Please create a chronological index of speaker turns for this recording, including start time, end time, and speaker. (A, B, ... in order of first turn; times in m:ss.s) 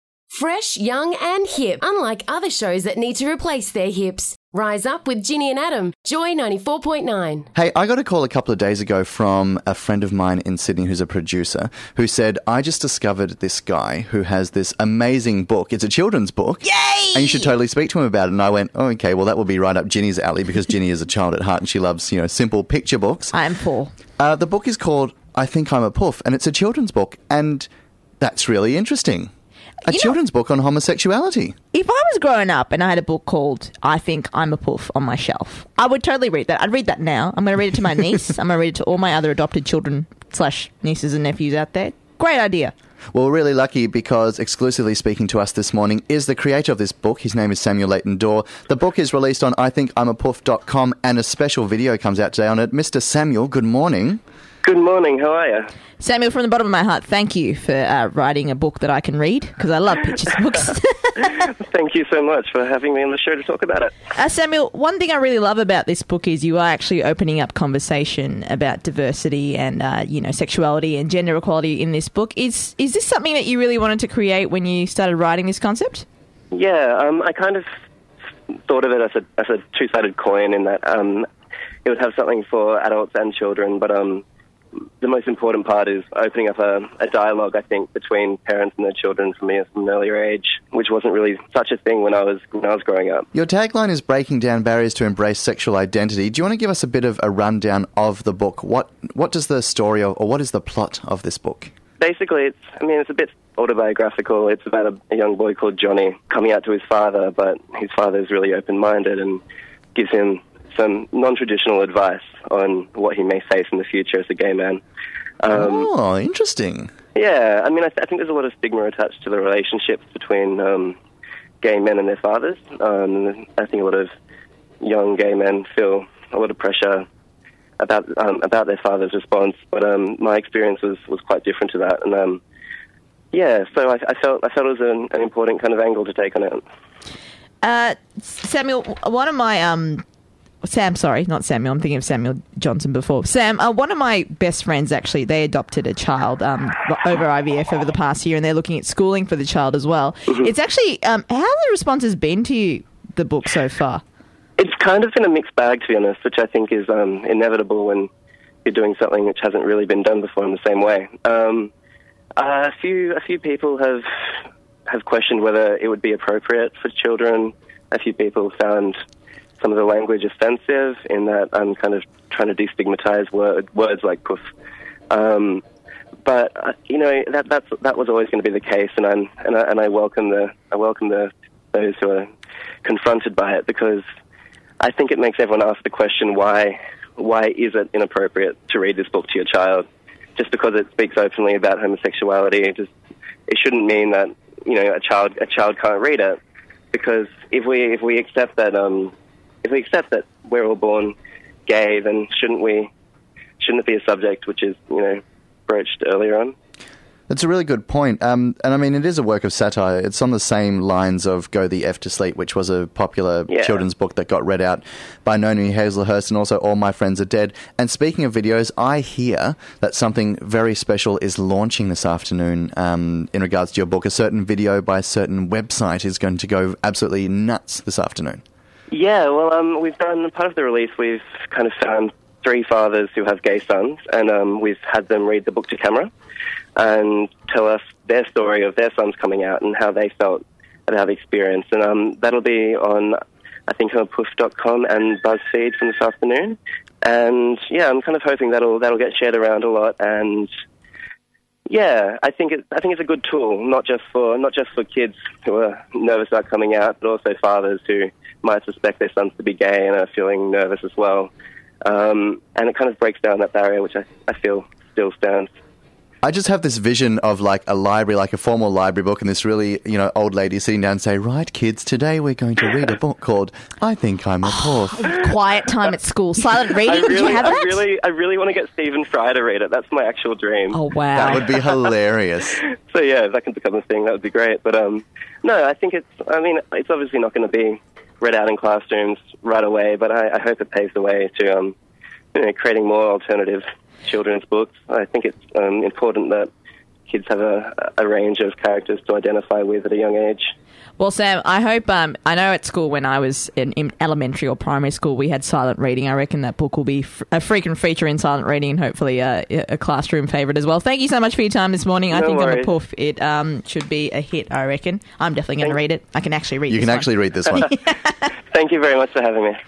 0:00.3-0:07.5 A
0:07.5-0:23.3 B
0:16.6-0:17.5 C
0:23.3-0:23.9 C
0:24.2-0:27.7 B
0:28.2-0:29.3 B
0:29.8-0:31.5 B
0:29.9-0:30.1 C
0:31.7-0:42.7 C
0:43.1-0:54.2 B
0:54.6-0:55.7 D
0:56.0-1:01.3 C
1:01.3-1:03.9 D
1:04.1-1:16.0 C
1:16.5-1:17.6 D
1:18.7-1:21.2 D
1:21.8-1:24.2 D
1:25.0-1:33.3 D
1:33.3-1:41.7 B
1:42.0-1:49.4 D
1:49.9-1:54.8 D
1:55.4-1:55.9 D
1:55.5-1:56.9 B
1:57.1-2:01.0 D
2:01.6-2:04.1 D
2:04.8-2:07.0 D
2:07.8-2:12.4 D
2:13.3-2:16.6 D
2:17.6-2:20.0 C
2:20.6-2:34.0 C
2:34.6-2:38.1 D
2:38.6-2:41.7 D
2:42.4-2:44.0 D
2:44.9-2:49.0 D
2:49.6-2:54.4 D
2:55.1-2:55.6 D
2:56.2-3:02.3 D
3:02.8-3:04.0 D
3:04.8-3:12.9 D
3:13.5-3:16.4 D
3:16.9-3:19.1 D
3:19.6-3:21.1 D
3:21.7-3:22.9 D
3:23.6-3:26.5 D
3:27.3-3:48.4 B
3:33.5-3:33.8 D
3:48.9-3:56.1 D
3:56.8-4:03.1 D
4:03.7-4:10.5 D
4:11.7-4:21.3 D
4:21.8-4:25.5 D
4:26.2-4:35.2 B
4:34.6-4:37.8 C
4:36.8-4:40.8 D
4:40.7-4:41.4 C
4:41.1-4:42.6 B
4:42.7-4:51.7 D
4:52.3-4:56.5 D
4:57.1-5:00.5 D
5:01.0-5:17.7 C
5:12.1-5:12.7 D
5:16.7-5:17.7 B
5:18.5-5:19.6 D